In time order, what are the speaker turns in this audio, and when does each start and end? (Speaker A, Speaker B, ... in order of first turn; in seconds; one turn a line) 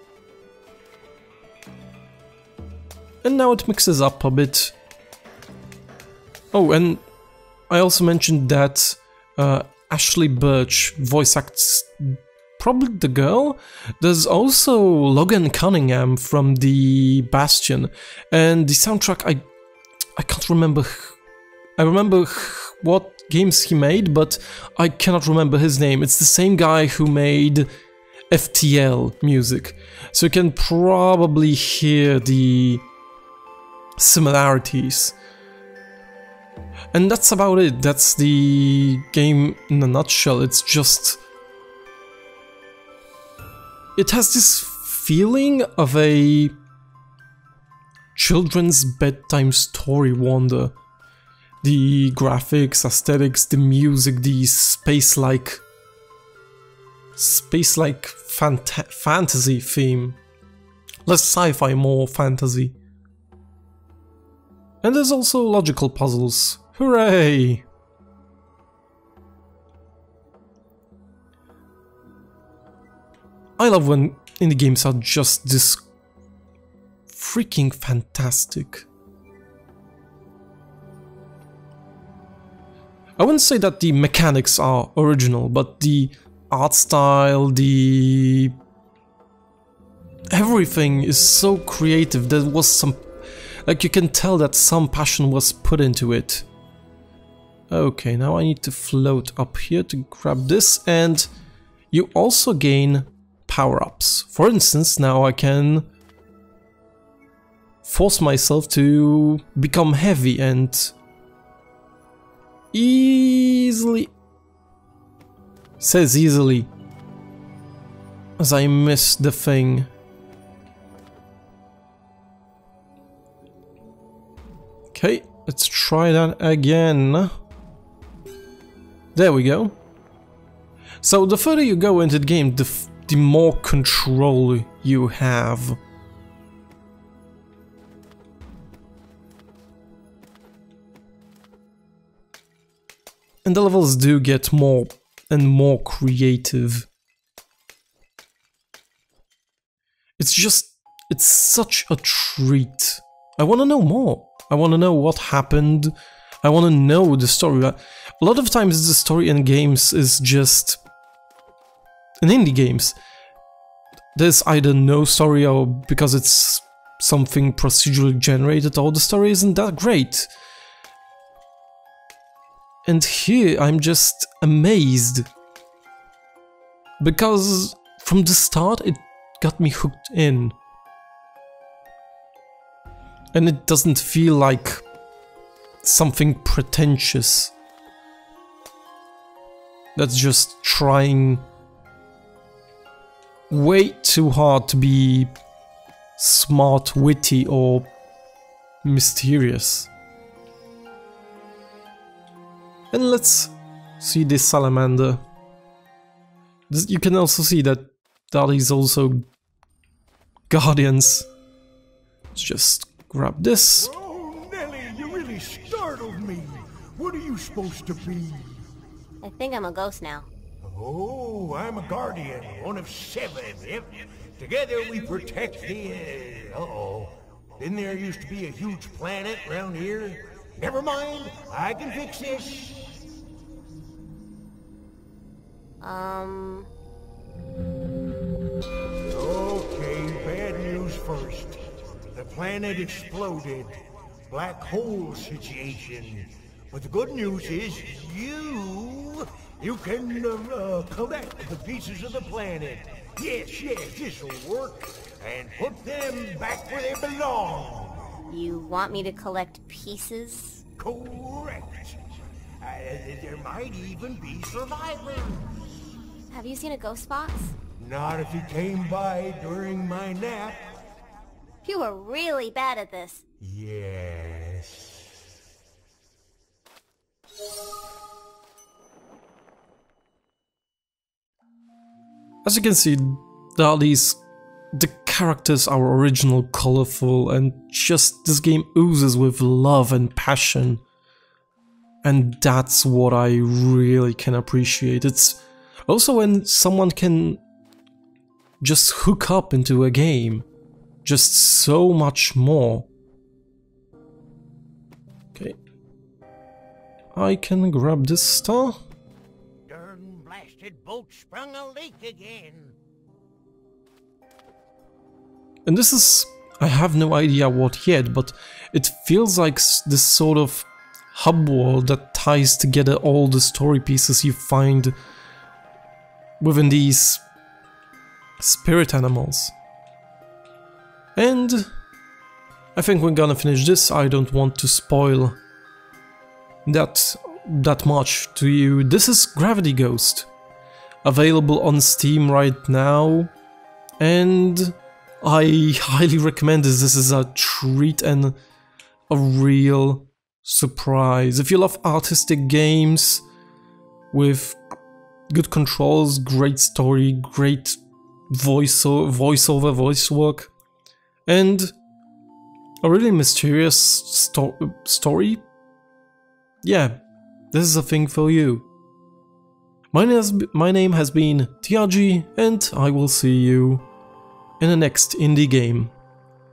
Speaker A: 3.2-4.8
Speaker A: 6.5-7.0
Speaker A: 7.7-19.4
Speaker A: 20.2-21.2
Speaker A: 21.8-27.7
Speaker A: 28.3-32.9
Speaker A: 34.0-35.2
Speaker A: 36.9-41.2
Speaker A: 44.0-46.5
Speaker A: 48.1-50.8
Speaker A: 51.6-55.6
Speaker A: 57.2-60.2
Speaker A: 61.0-62.8
Speaker A: 64.8-67.7
Speaker A: 73.6-75.8
Speaker A: 77.1-78.9
Speaker A: 83.2-88.6
Speaker A: 90.3-93.1
Speaker A: 93.6-96.5
Speaker A: 97.7-101.3
Speaker A: 101.9-105.9
Speaker A: 107.8-111.0
Speaker A: 112.7-114.1
Speaker A: 115.8-116.7
Speaker A: 118.4-119.9
Speaker A: 124.9-127.4
Speaker A: 129.2-129.8
Speaker A: 131.0-135.8
Speaker A: 143.4-146.9
Speaker A: 150.2-160.8
Speaker A: 162.2-163.0
Speaker A: 164.1-170.3
Speaker A: 172.8-175.3
Speaker A: 177.0-180.6
Speaker A: 183.3-184.8
Speaker A: 185.8-187.6
Speaker A: 190.0-191.5
Speaker A: 193.5-195.3
Speaker A: 196.2-197.9
Speaker A: 198.8-199.9
Speaker A: 202.9-205.2
Speaker A: 206.7-209.3
Speaker A: 210.5-211.3
Speaker A: 212.3-213.9
Speaker B: 213.8-218.6
Speaker C: 219.2-220.3
Speaker B: 220.6-232.9
Speaker C: 235.8-236.7
Speaker B: 239.1-258.2
Speaker C: 258.3-260.6
Speaker B: 260.8-265.5
Speaker C: 266.3-267.6
Speaker B: 267.8-270.8
Speaker C: 271.6-273.2
Speaker B: 273.4-275.1
Speaker A: 282.4-284.2
Speaker A: 284.7-290.8
Speaker A: 292.0-297.4
Speaker A: 298.6-300.5
Speaker A: 301.0-302.9
Speaker A: 307.1-308.8
Speaker B: 309.7-312.8
Speaker A: 315.7-324.9
Speaker A: 326.4-327.2
Speaker A: 328.4-329.5
Speaker A: 331.2-331.7
Speaker A: 332.8-335.4
Speaker A: 336.6-340.3
Speaker A: 341.0-343.3
Speaker A: 344.0-348.4
Speaker A: 349.1-353.2
Speaker A: 354.1-354.6
Speaker A: 355.3-360.5
Speaker A: 361.3-361.8
Speaker A: 362.8-365.4
Speaker A: 366.6-367.0
Speaker A: 367.5-368.7
Speaker A: 369.9-373.9
Speaker A: 374.6-375.9